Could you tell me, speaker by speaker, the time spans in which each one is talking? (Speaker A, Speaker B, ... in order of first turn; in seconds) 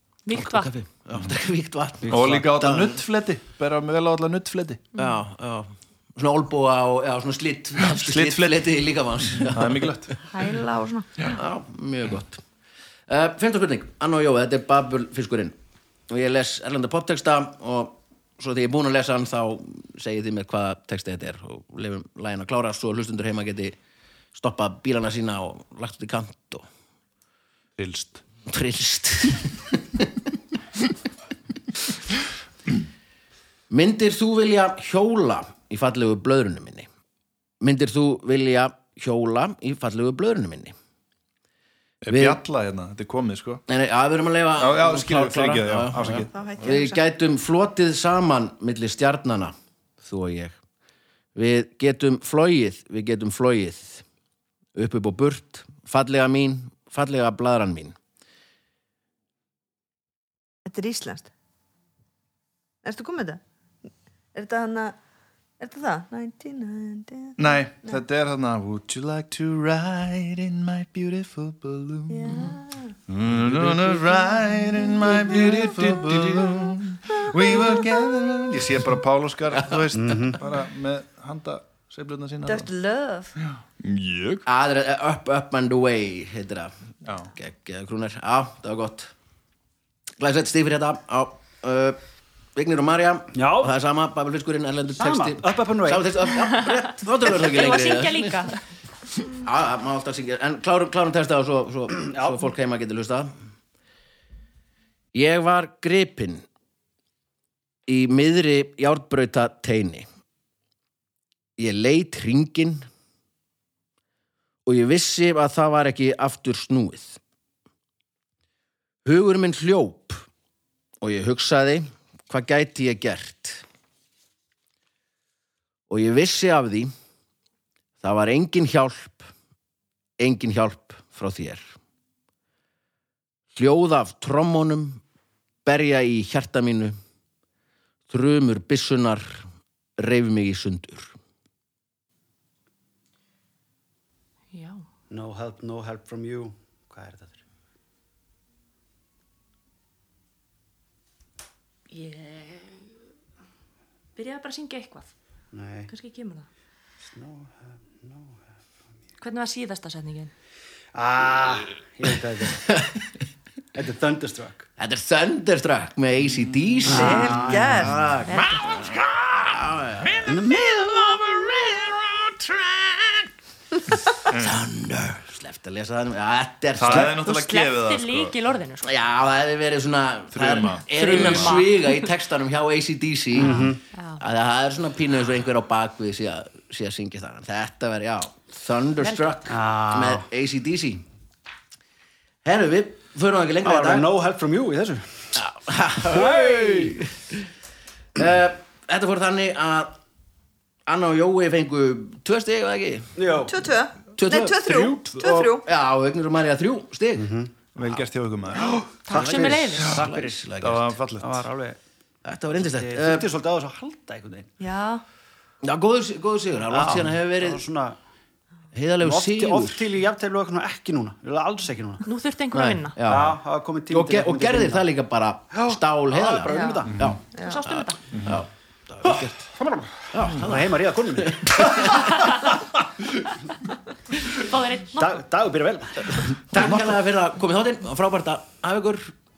Speaker A: 0.3-0.7, 96.5-98.6, 144.5-144.8, 151.9-152.9, 154.2-155.1, 155.9-156.5, 159.2-160.3, 168.3-168.9, 177.2-178.9, 180.9-182.1, 183.4-184.2, 189.0-189.4, 209.1-210.0, 222.0-223.0, 227.4-228.0, 234.3-235.2
Speaker B: 0.3-3.0, 5.0-10.3, 11.2-12.4, 13.1-15.6, 16.1-23.8, 24.3-26.7, 28.5-30.1, 33.7-36.9, 37.6-40.8, 42.1-42.4, 43.7-50.6, 51.4-54.0, 54.8-58.0, 75.2-76.7, 84.5-89.1, 90.2-92.0, 92.6-98.5, 99.2-103.3, 105.1-106.5, 107.9-110.1, 111.6-112.9, 114.7-117.2, 119.0-120.3, 121.0-123.6, 125.9-126.9, 128.0-129.3, 130.2-131.7, 133.6-135.0, 135.7-137.0, 138.1-141.2, 162.5-163.1, 164.8-173.3, 174.1-177.2, 178.8-191.1, 192.4-194.1, 195.3-197.5, 198.2-200.0, 200.9-203.1, 204.2-205.0, 205.6-207.3, 209.1-210.9, 212.2-213.3, 215.6-217.6, 218.7-219.8, 222.5-229.5, 230.1-232.3, 236.5-239.1
Speaker C: 2.0-2.4, 79.9-80.4, 93.3-93.7, 95.0-96.1, 102.0-102.4, 145.1-147.4, 155.5-155.9, 157.1-158.4, 160.9-162.7, 163.7-164.7, 166.8-167.9, 170.3-170.7, 183.4-183.8, 189.5-190.3, 193.6-195.4, 196.1-197.0, 203.2-203.5, 207.2-207.7, 208.6-210.4, 211.2-211.8, 212.6-214.5, 216.7-218.0, 219.0-222.0, 223.1-224.9, 225.5-226.5, 230.3-231.9, 235.0-236.8
Speaker D: 2.1-4.8, 7.8-8.7, 9.4-10.1, 27.8-28.2, 42.0-43.6, 44.6-46.6, 67.4-82.7, 83.4-84.5, 87.0-87.3, 174.3-174.6, 176.8-178.3, 180.3-181.6, 204.3-205.5, 207.8-208.8, 210.6-211.5, 226.9-227.2, 228.1-228.4
Speaker E: 10.3-11.1, 46.3-47.0, 60.7-61.3, 62.8-63.4, 64.3-65.0, 65.6-68.0, 72.1-73.0, 77.4-77.8, 82.5-83.3, 166.9-168.0, 203.5-205.7, 214.6-215.0, 226.5-227.6